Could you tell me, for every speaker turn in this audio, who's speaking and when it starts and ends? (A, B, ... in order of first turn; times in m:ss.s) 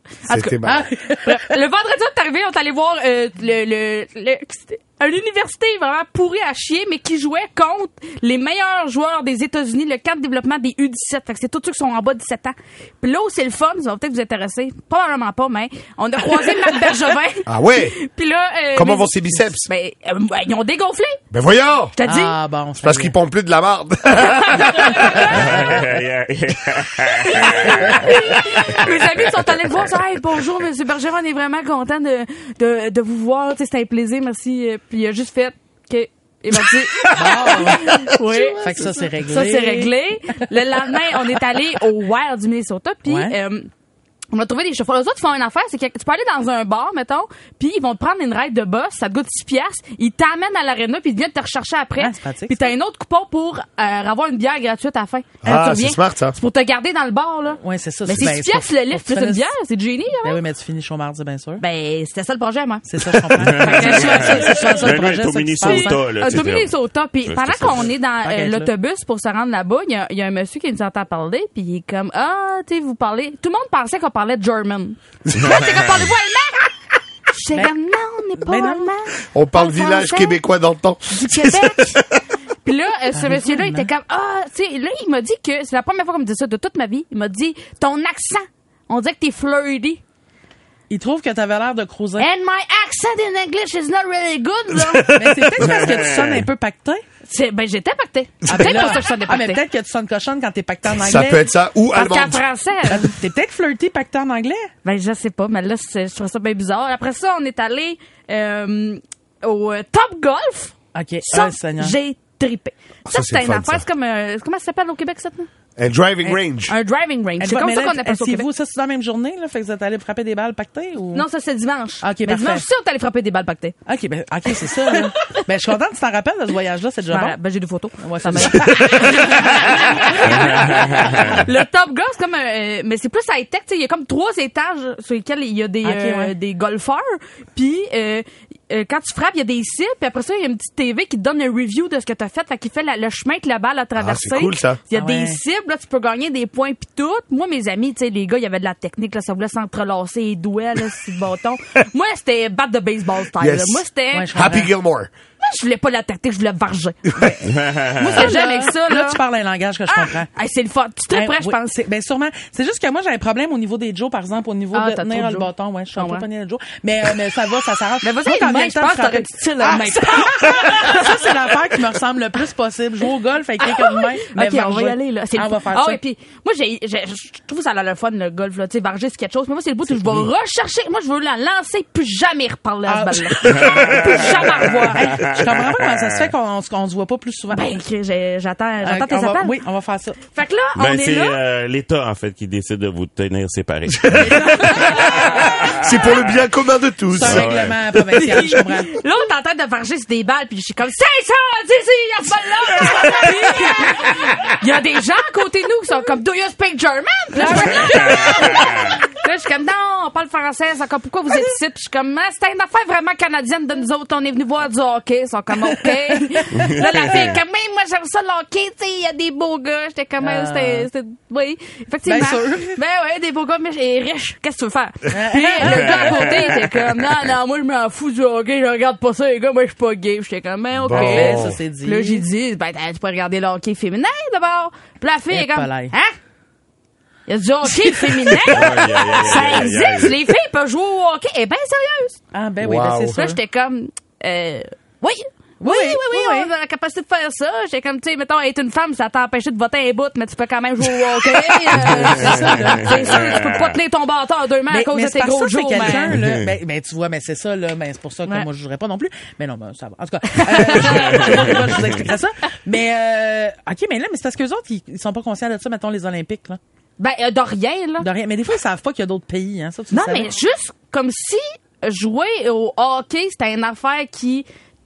0:00.3-0:00.9 A
0:00.3-0:21.2 B
0:00.7-0:01.4 C
0:17.5-0:18.0 A
0:18.8-0:19.7 A
0:21.3-0:22.0 A
0:22.0-0:22.4 B
0:22.0-0:23.2 C
0:22.8-0:25.3 A
0:24.2-0:25.4 B
0:25.4-0:29.0 D
0:27.2-0:43.7 B
0:37.1-0:39.9 C
0:43.1-0:43.4 C
0:44.3-1:00.4 B
0:52.0-0:52.6 C
0:55.4-0:56.4 A
0:57.6-0:59.5 C
1:00.2-1:01.6 C
1:01.6-1:02.9 B
1:02.9-1:06.4 C
1:03.4-1:06.7 D
1:03.4-1:16.8 B
1:07.3-1:07.9 D
1:08.2-1:08.7 C
1:15.3-1:15.8 A
1:17.3-1:20.4 B
1:18.4-1:18.9 C
1:19.3-1:22.1 A
1:21.1-1:22.0 B
1:22.6-1:30.0 B
1:23.1-1:23.9 C
1:30.9-1:32.3 C
1:32.2-1:35.6 B
1:35.1-1:37.0 C
1:36.1-1:36.4 D
1:37.3-1:39.6 B
1:38.5-1:41.4 C
1:40.9-1:42.4 A
1:41.9-1:43.2 B
1:42.9-1:44.7 C
1:44.8-1:55.5 B
1:50.9-1:52.0 C
1:53.1-1:53.8 A
1:55.8-1:56.7 A
1:56.2-1:58.5 B
1:57.4-2:01.2 C
2:01.1-2:03.8 B
2:02.0-2:02.6 C
2:03.9-2:07.4 C
2:07.1-2:34.3 B
2:08.0-2:11.4 C
2:10.7-2:11.1 D
2:15.8-2:16.3 C
2:24.0-2:24.8 A
2:24.9-2:25.4 C
2:33.4-2:35.1 A
2:34.1-2:34.7 C
2:35.4-2:37.1 B
2:37.5-2:38.1 D
2:38.0-2:39.2 B
2:38.1-2:40.3 C
2:39.9-2:41.7 B
2:41.1-2:56.0 C
2:44.7-2:46.3 B
2:48.0-2:51.3 B
2:53.6-3:05.1 B
3:02.9-3:07.7 C
3:03.5-3:04.3 D
3:05.2-3:05.9 D
3:07.5-3:09.5 B
3:08.8-3:10.2 C
3:10.4-3:11.4 B
3:10.8-3:14.6 D
3:14.0-3:17.6 A
3:14.2-3:15.3 C
3:14.7-3:15.2 B
3:17.1-3:19.0 C
3:17.2-3:17.8 D
3:18.1-3:56.2 B
3:27.4-3:28.2 C
3:36.6-3:37.3 D
3:40.2-3:40.9 C
3:42.1-3:42.8 C
3:45.1-3:46.5 C
3:50.8-3:51.6 A
3:50.9-3:52.2 C
3:55.3-3:55.9 C
3:57.3-4:02.2 B
3:57.6-3:58.7 C
3:58.5-4:00.2 D
4:02.3-4:03.4 C
4:02.6-4:03.2 A
4:03.2-4:16.1 B
4:05.6-4:06.5 C
4:11.7-4:13.3 C
4:12.4-4:13.5 D
4:14.7-4:26.6 C
4:16.1-4:16.4 D
4:20.4-4:21.6 B
4:27.0-4:28.1 B
4:28.0-4:30.4 C
4:29.9-4:34.5 B